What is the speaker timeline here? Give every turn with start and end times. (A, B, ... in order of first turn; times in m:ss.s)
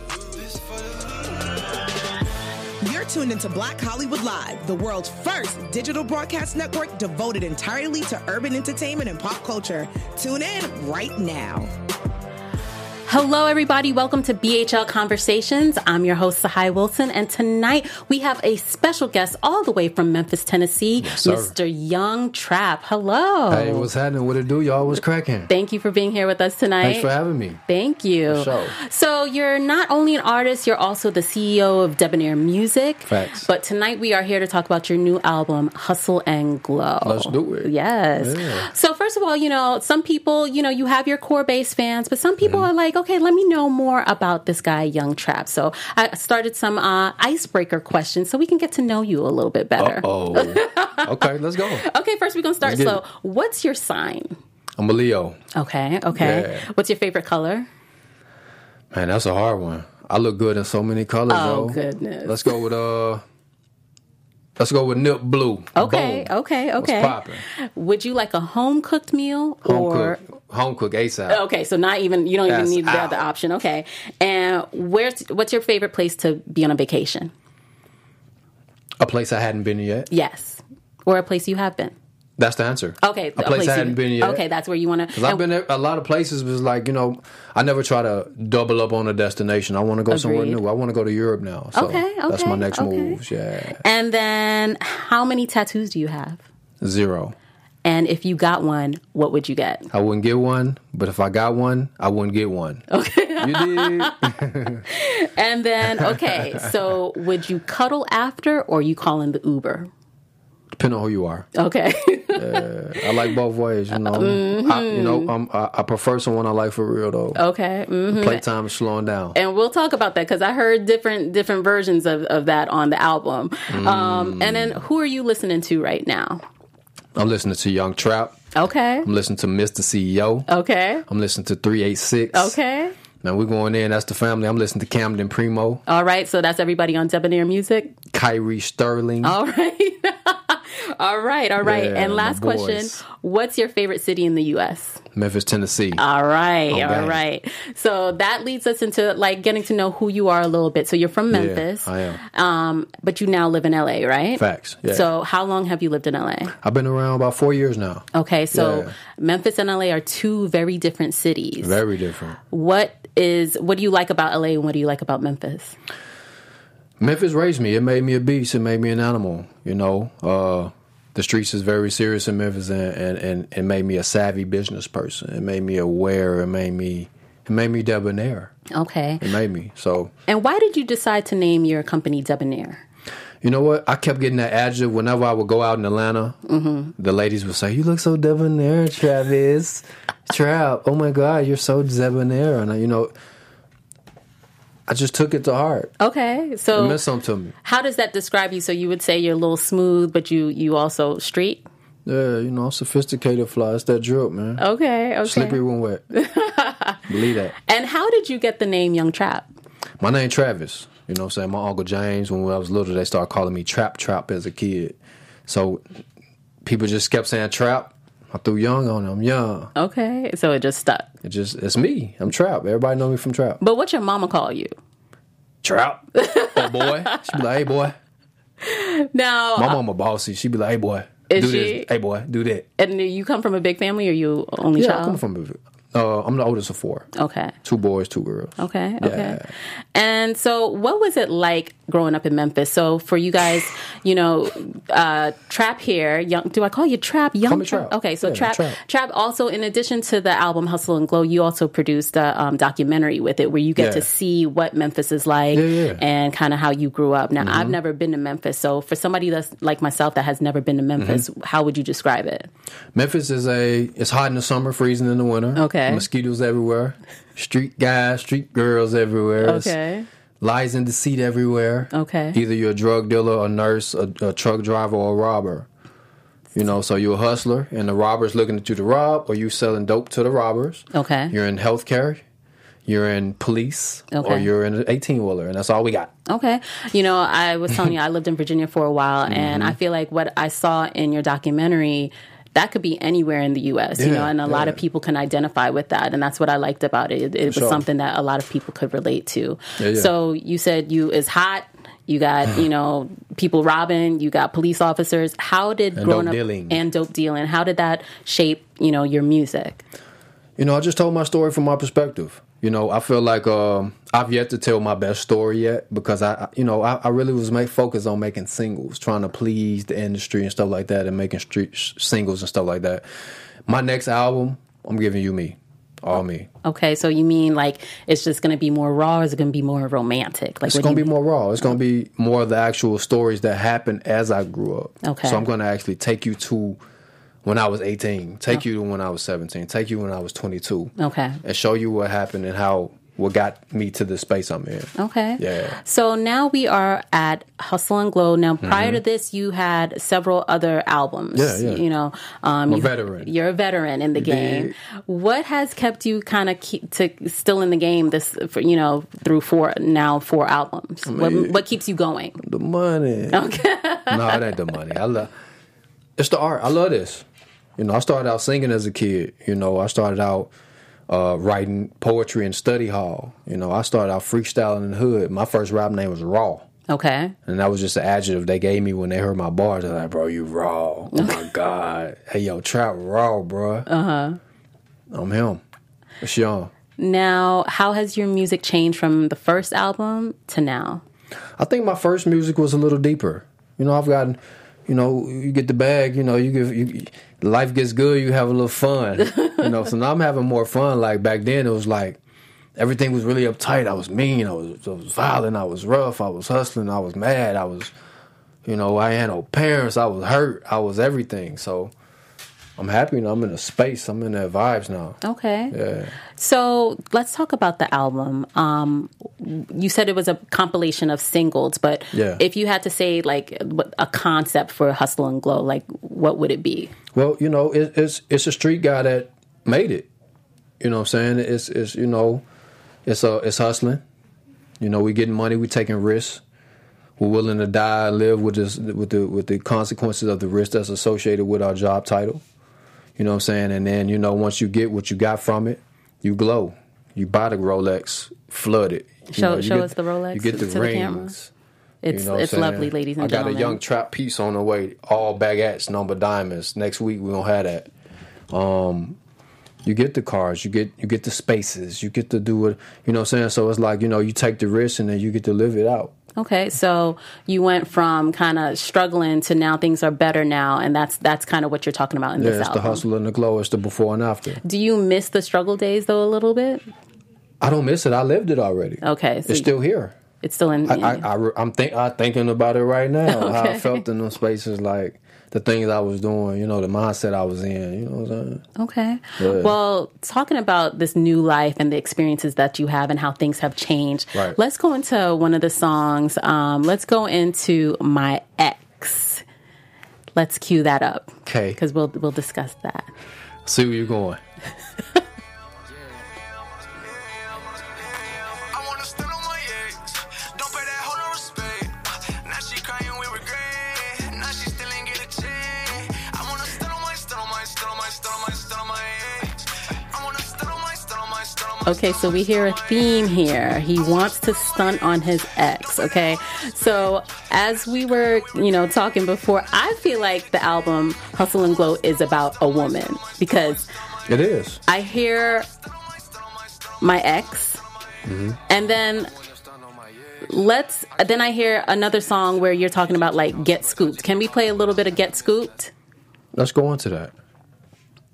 0:00.4-0:00.8 A
0:02.8-0:11.7 B
0:13.1-0:23.9 C
0:21.0-0:21.6 D
0:23.5-0:25.5 D
0:25.5-0:27.1 C
0:26.8-0:27.6 D
0:27.7-0:54.4 C
0:28.3-0:28.8 D
0:33.1-0:33.5 D
0:37.0-0:38.7 D
0:42.4-0:42.7 D
0:49.8-0:51.8 D
0:52.6-0:53.0 D
0:54.8-0:55.4 D
0:55.6-0:57.7 C
0:56.1-0:56.7 D
0:58.9-1:03.2 D
1:01.3-1:02.6 C
1:04.6-1:07.4 D
1:05.8-1:10.2 C
1:09.6-1:11.4 D
1:11.3-1:17.3 C
1:12.5-1:13.2 D
1:19.0-1:20.1 D
1:20.1-1:22.0 C
1:22.4-1:24.4 D
1:23.0-1:25.4 C
1:25.1-1:33.8 D
1:30.1-1:30.6 C
1:31.8-1:33.2 C
1:33.8-1:36.4 C
1:36.8-1:37.4 D
1:37.8-1:39.9 C
1:39.9-1:42.8 D
1:42.9-1:44.3 C
1:43.4-1:44.9 D
1:44.9-1:49.9 C
1:46.0-1:46.7 D
1:50.7-1:51.5 D
1:51.6-1:53.3 C
1:52.3-1:57.4 D
1:53.9-1:55.3 C
1:57.4-1:58.4 C
1:58.1-1:59.4 D
1:59.3-2:06.4 C
2:03.7-2:04.8 D
2:07.2-2:08.4 D
2:08.6-2:09.1 C
2:09.0-2:10.5 D
2:10.5-2:11.0 C
2:11.1-2:12.6 D
2:12.3-2:12.9 C
2:13.2-2:15.8 D
2:15.9-2:18.0 C
2:18.1-2:19.4 D
2:19.2-2:25.0 C
2:21.6-2:23.0 D
2:25.1-2:26.0 D
2:26.0-2:36.5 C
2:26.7-2:27.2 D
2:31.3-2:32.2 D
2:34.4-2:35.1 D
2:36.6-2:38.9 D
2:38.1-2:41.8 C
2:41.6-2:42.4 D
2:42.5-2:45.8 C
2:47.0-2:58.5 D
2:58.7-2:59.2 C
2:59.2-3:00.1 D
3:00.3-3:02.8 C
3:03.4-3:06.4 D
3:06.5-3:06.9 C
3:07.0-3:13.1 D
3:14.9-3:15.9 D
3:16.0-3:17.0 C
3:16.7-3:17.5 D
3:17.6-3:21.6 C
3:22.1-3:24.6 D
3:24.6-3:25.6 C
3:25.2-3:26.0 D
3:26.1-3:27.1 C
3:27.1-3:27.5 D
3:27.6-3:29.5 C
3:30.0-3:35.0 D
3:35.5-3:35.8 D
3:36.6-3:39.7 D
3:39.8-3:41.1 C
3:41.2-3:43.6 D
3:43.6-3:44.7 C
3:45.6-3:48.0 D
3:46.2-3:47.4 C
3:48.6-3:49.8 C
3:49.6-3:52.7 D
3:51.3-3:51.9 C
3:52.8-3:55.2 C
3:54.8-3:57.1 D
3:57.2-3:57.5 C
3:57.6-3:59.5 D
3:58.6-3:59.4 C
3:59.9-4:22.5 C
4:07.4-4:08.8 D
4:13.8-4:14.1 D
4:15.5-4:16.0 D
4:17.4-4:17.8 D
4:21.0-4:21.2 D
4:22.9-4:29.8 D
4:25.6-4:26.1 C
4:29.4-4:30.1 C
4:30.4-4:35.7 D
4:31.9-4:32.4 C
4:36.6-4:42.2 D
4:40.9-4:41.3 C
4:42.9-4:46.1 D
4:44.1-4:44.5 C
4:46.3-5:09.8 C
4:49.3-4:49.8 D
4:54.0-4:54.8 D
4:57.5-4:57.8 D
4:59.8-5:00.1 D
5:06.0-5:06.8 D
5:10.6-5:23.0 D
5:23.7-5:26.5 D
5:26.6-5:31.1 C
5:30.6-5:36.8 D
5:35.0-5:35.4 C
5:37.4-5:45.8 D
5:41.0-5:41.4 C
5:45.0-6:02.4 C
5:48.6-5:49.0 D
5:51.4-5:51.8 D
5:52.7-5:53.3 D
5:54.2-5:54.7 D
6:01.0-6:01.6 D
6:02.4-6:03.4 D
6:03.3-6:04.5 C
6:04.1-6:05.3 D
6:06.2-6:07.2 D
6:07.8-6:10.5 D
6:11.1-6:16.7 D
6:16.9-6:17.4 C
6:17.5-6:23.9 D
6:21.1-6:21.4 C
6:23.9-6:24.4 C
6:25.1-6:25.6 D
6:26.2-6:26.7 D
6:27.0-6:31.0 C
6:31.6-6:42.2 D
6:39.3-6:39.6 C
6:42.8-6:47.9 D
6:48.6-6:51.9 D
6:52.8-6:55.2 D
6:55.2-6:55.8 C
6:55.7-6:56.2 D
6:56.4-7:06.9 C
7:02.1-7:02.4 D
7:07.1-7:10.1 D
7:10.8-7:12.4 D
7:13.1-7:14.0 D
7:14.8-7:16.4 D
7:17.2-7:22.4 D
7:23.2-7:31.5 D
7:29.3-7:31.3 C
7:32.0-7:33.8 C
7:32.1-7:37.9 D
7:38.5-7:39.2 D
7:39.8-7:46.1 D
7:46.4-7:53.0 C
7:52.4-7:54.6 D
7:54.6-7:56.9 C
7:57.6-8:00.2 D
7:59.0-7:59.7 C
8:00.4-8:01.2 C
8:00.9-8:08.6 D
8:03.3-8:04.0 C
8:08.8-8:19.4 C
8:09.4-8:09.8 D
8:20.4-8:23.1 C
8:21.5-8:21.8 D
8:23.6-8:24.4 D
8:28.4-8:41.9 A
8:41.9-8:53.9 C
8:54.3-8:54.8 D
8:54.9-8:55.7 C
8:56.0-8:56.9 A
8:57.0-8:57.8 C
8:58.2-8:58.6 D
8:58.7-8:59.3 C
8:59.4-9:00.4 A
9:00.4-9:05.9 C
9:03.7-9:04.6 A
9:06.5-9:07.3 D